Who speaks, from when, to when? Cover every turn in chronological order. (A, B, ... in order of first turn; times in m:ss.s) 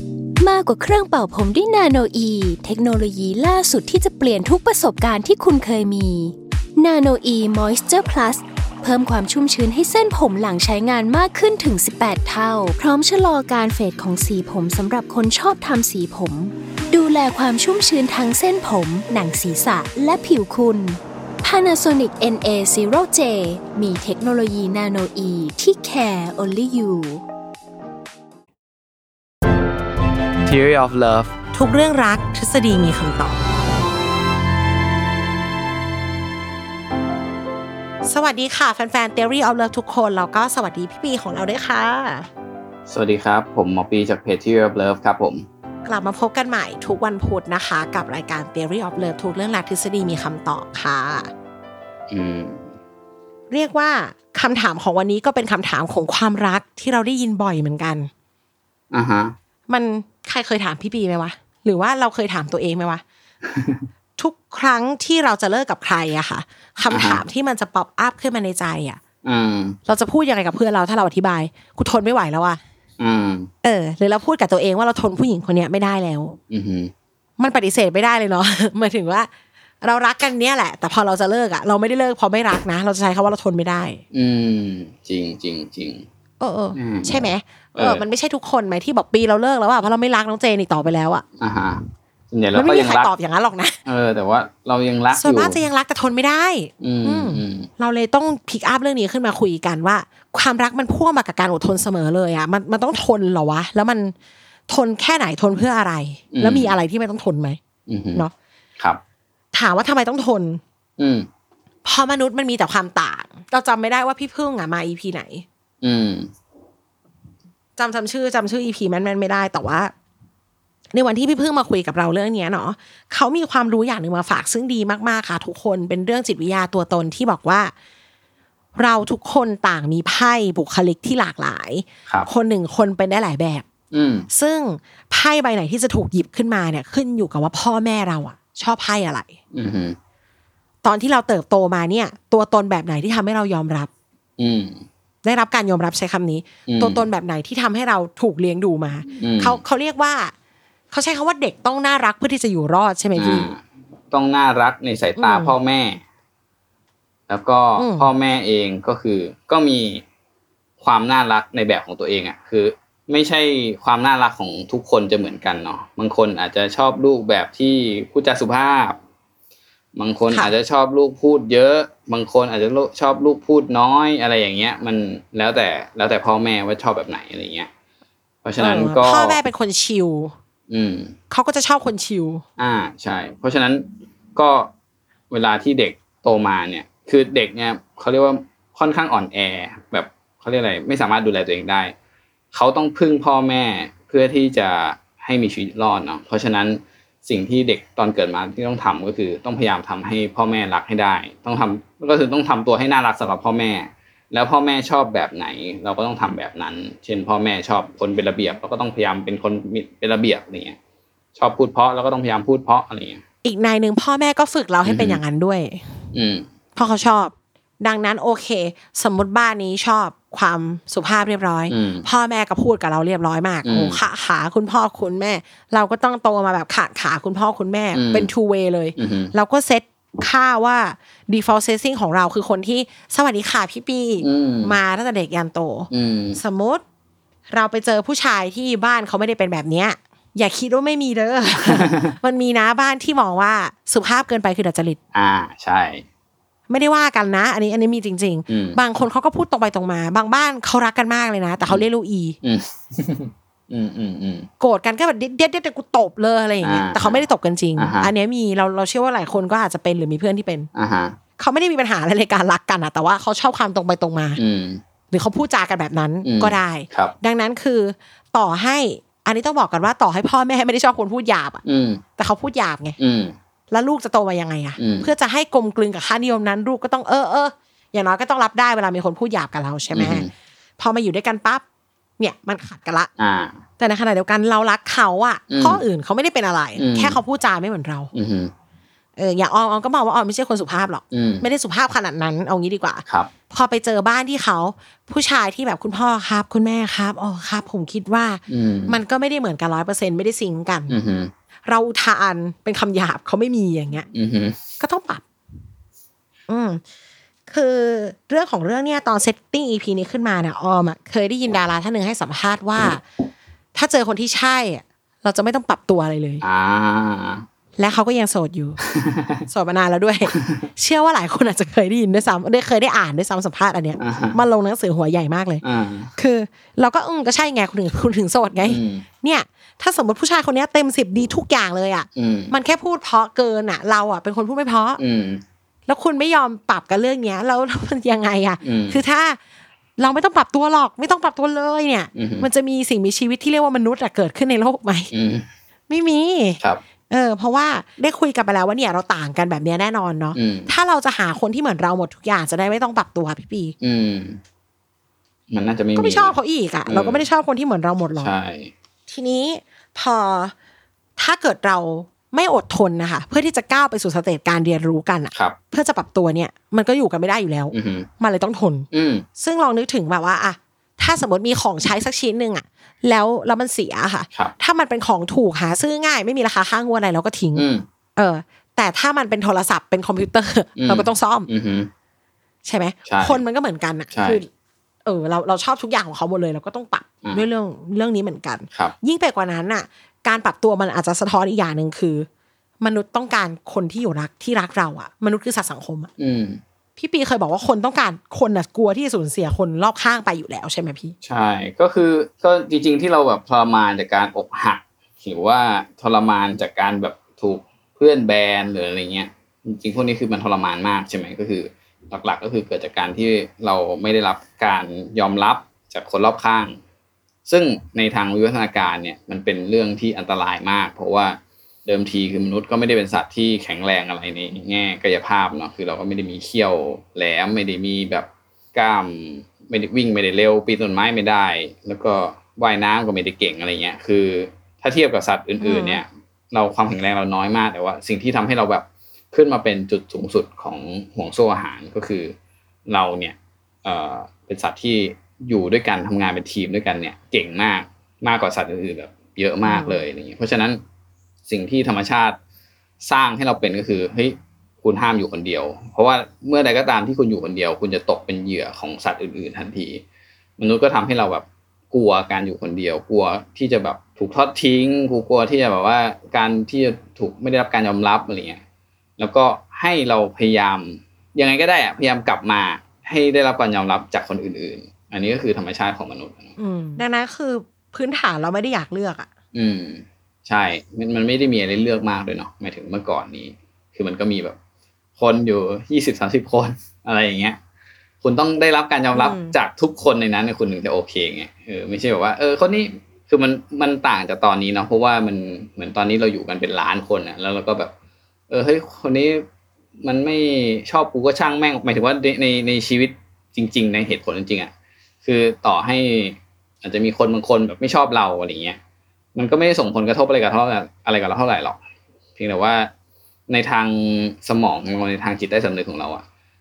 0:00.4-0:27.2 A
0:30.4-0:31.3 B
0:31.5-0:33.4 C
0:38.0-0:42.3 C
0:42.9-0:45.4 B
0:45.8-0:51.3 C
0:52.1-0:52.7 B
0:53.5-0:58.1 C
0:58.9-0:59.3 B
0:59.7-1:03.0 C
1:03.4-1:03.8 B
1:04.2-1:09.0 C
1:06.9-1:07.2 B
1:09.2-1:09.8 B
1:09.9-1:12.6 C
1:13.0-1:13.5 B
1:13.6-1:16.4 C
1:16.5-1:16.9 B
1:17.4-1:19.3 C
1:19.8-1:24.0 C
1:24.1-1:26.0 B
1:26.4-1:31.2 C
1:26.7-1:28.0 B
1:31.4-1:33.1 B
1:32.5-1:33.8 C
1:33.8-1:35.6 B
1:35.1-1:44.1 C
1:36.8-1:37.7 B
1:44.7-1:47.6 C
1:46.3-1:46.8 B
1:47.9-1:48.2 B
1:49.5-1:50.6 C
1:51.0-1:51.3 B
1:51.8-1:55.4 C
1:55.8-1:56.3 B
1:57.8-1:59.9 C
2:00.9-2:07.7 C
2:08.8-2:13.6 C
2:13.9-2:14.3 B
2:14.3-2:19.3 C
2:19.5-2:20.0 B
2:20.8-2:23.9 C
2:24.4-2:24.8 B
2:25.2-2:30.3 C
2:26.7-2:27.0 B
2:29.2-2:29.6 B
2:30.9-2:33.5 C
2:33.2-2:36.0 B
2:35.2-2:35.5 C
2:37.3-2:40.0 B
2:37.8-2:38.1 C
2:40.8-2:49.0 B
2:50.0-2:57.7 B
2:58.4-2:59.4 B
2:58.6-3:00.3 C
3:00.7-3:01.1 B
3:01.3-3:02.4 C
3:02.6-3:04.7 B
3:05.3-3:11.9 B
3:12.5-3:30.8 B
3:31.4-3:33.2 B
3:33.4-3:35.8 C
3:34.8-3:35.2 B
3:36.1-3:36.4 B
3:36.8-3:56.8 C
3:41.7-3:42.0 B
3:43.6-3:44.0 B
3:47.9-3:48.3 B
3:49.0-3:49.3 B
3:54.2-3:54.7 B
3:55.9-3:56.4 B
3:57.5-4:05.0 C
4:01.6-4:02.1 B
4:05.1-4:06.0 B
4:06.7-4:12.4 C
4:08.5-4:08.8 B
4:12.4-4:14.5 B
4:14.6-4:20.7 C
4:16.6-4:17.2 B
4:17.8-4:18.1 B
4:20.7-4:21.2 B
4:21.4-4:24.4 C
4:24.4-4:24.8 B
4:25.1-4:31.6 C
4:26.2-4:27.1 B
4:31.6-4:32.0 B
4:32.2-4:33.0 C
4:33.0-4:33.3 B
4:33.7-4:40.3 C
4:34.8-4:35.1 B
4:39.9-4:40.3 B
4:40.8-4:41.6 C
4:42.2-4:43.1 C
4:43.2-4:43.6 B
4:43.8-4:48.1 C
4:45.5-4:45.8 B
4:46.8-4:47.2 B
4:48.1-4:48.5 B
4:49.2-5:01.0 C
4:51.1-4:51.4 B
4:53.0-4:53.3 B
4:58.5-4:59.0 B
5:00.9-5:01.3 B
5:01.6-5:04.1 C
5:04.1-5:04.6 B
5:04.8-5:05.2 C
5:06.5-5:06.8 C
5:07.5-5:13.0 C
5:13.7-5:16.4 C
5:16.4-5:17.4 B
5:17.8-5:18.8 C
5:18.9-5:19.4 B
5:19.5-5:25.6 C
5:20.3-5:20.6 B
5:24.0-5:24.4 B
5:25.6-5:26.1 B
5:26.2-5:35.0 C
5:28.6-5:29.0 B
5:32.2-5:32.5 B
5:35.0-5:35.4 B
5:35.9-5:39.4 C
5:38.6-5:39.0 B
5:40.0-5:45.1 C
5:42.1-5:42.5 B
5:45.1-5:45.5 B
5:45.9-5:53.7 C
5:50.3-5:50.7 B
5:53.8-5:54.4 B
5:55.5-5:56.3 B
5:55.9-5:58.3 C
5:56.8-5:57.2 B
5:58.2-5:58.7 B
5:59.1-6:00.5 C
6:01.2-6:08.9 C
6:07.7-6:08.1 B
6:08.9-6:09.2 B
6:09.4-6:21.5 C
6:17.5-6:17.9 B
6:20.8-6:21.9 B
6:22.6-6:24.5 C
6:23.1-6:23.4 B
6:24.1-6:24.4 B
6:25.0-6:32.3 C
6:32.8-6:36.1 C
6:36.2-6:36.6 B
6:37.0-6:41.1 C
6:41.2-6:56.8 B
6:57.4-7:22.3 B
7:15.6-7:16.0 C
7:22.8-7:30.8 B
7:29.7-7:30.0 C
7:31.5-7:32.4 B
7:33.0-7:40.0 B
7:40.6-7:48.6 B
7:49.2-7:56.5 B
7:56.6-7:59.3 C
7:59.5-8:04.6 B
8:05.2-8:07.6 B
8:08.2-8:17.9 B
8:09.1-8:09.5 C
8:18.5-8:19.5 B
8:20.0-8:24.7 B
8:25.2-8:28.8 B
8:29.3-8:31.8 B
8:32.4-8:32.9 B
8:33.5-8:36.2 B